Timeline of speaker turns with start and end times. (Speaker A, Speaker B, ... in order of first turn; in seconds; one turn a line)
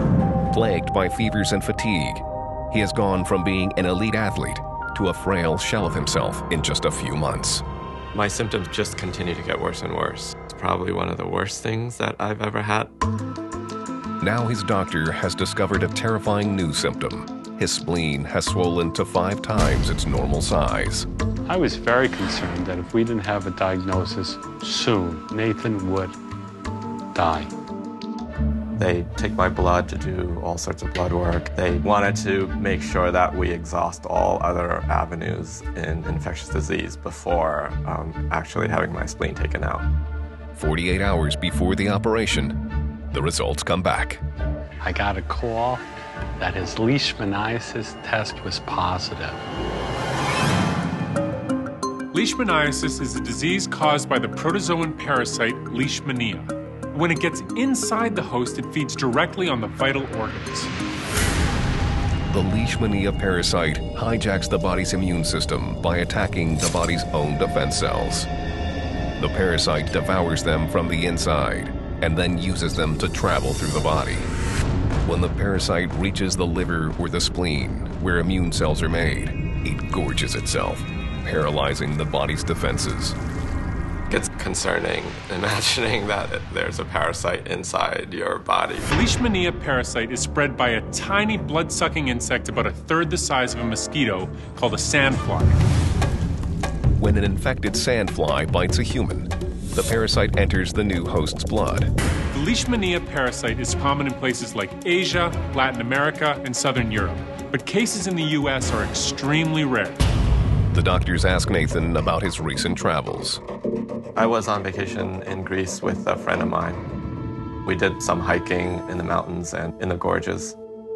Speaker A: 0.5-7.6
Speaker B: 8.1-12.9
Speaker A: 14.2-21.1
Speaker C: 21.5-26.2
Speaker C: 27.1-27.5
Speaker B: 28.8-39.9
Speaker A: 40.5-42.5
Speaker A: 43.1-44.2
Speaker C: 44.8-45.8
Speaker C: 46.4-49.5
Speaker D: 52.1-60.7
Speaker A: 62.3-68.3
Speaker A: 69.2-74.3
Speaker A: 75.0-83.2
Speaker B: 84.1-88.9
Speaker D: 88.9-95.6
Speaker A: 97.0-101.9
Speaker D: 102.3-110.0
Speaker A: 110.7-113.4
Speaker B: 114.2-116.8
Speaker B: 117.6-120.6